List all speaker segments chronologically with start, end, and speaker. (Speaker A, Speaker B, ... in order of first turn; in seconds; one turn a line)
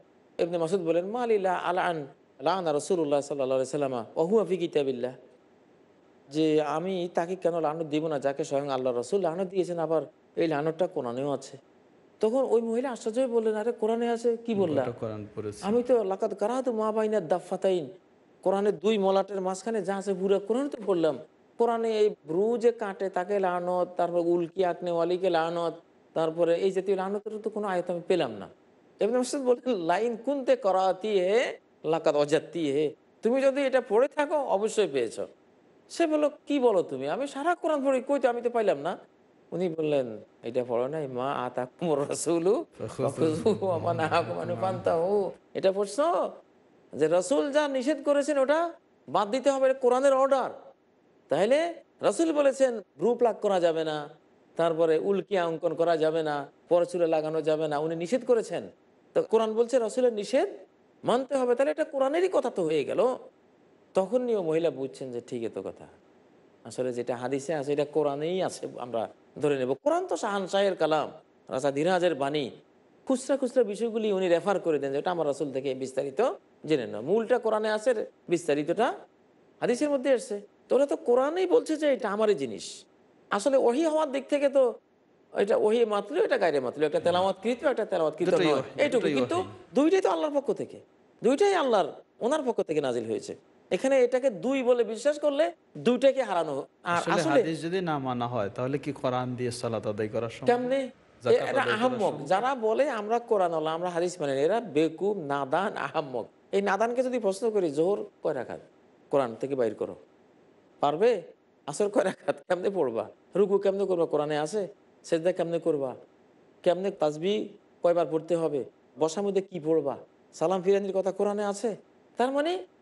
Speaker A: 0.4-5.1
Speaker A: 6.3-11.6
Speaker A: 12.2-14.9
Speaker B: 14.6-15.8
Speaker A: 15.6-17.8
Speaker A: 18.4-28.5
Speaker A: 29.0-35.3
Speaker A: 35.9-38.9
Speaker A: 39.5-46.1
Speaker B: 42.8-44.9
Speaker A: 47.0-48.6
Speaker A: 49.1-50.5
Speaker A: 51.3-54.0
Speaker A: 54.6-58.6
Speaker A: 59.1-60.5
Speaker A: 61.1-63.1
Speaker A: 64.0-65.9
Speaker A: 66.7-72.5
Speaker A: 73.1-78.9
Speaker A: 79.6-82.7
Speaker A: 83.3-84.6
Speaker A: 85.4-97.5
Speaker B: 88.2-89.5
Speaker B: 97.0-100.6
Speaker A: 100.5-110.0
Speaker B: 101.2-102.3
Speaker A: 110.8-111.1
Speaker A: 111.7-115.9
Speaker A: 116.7-122.5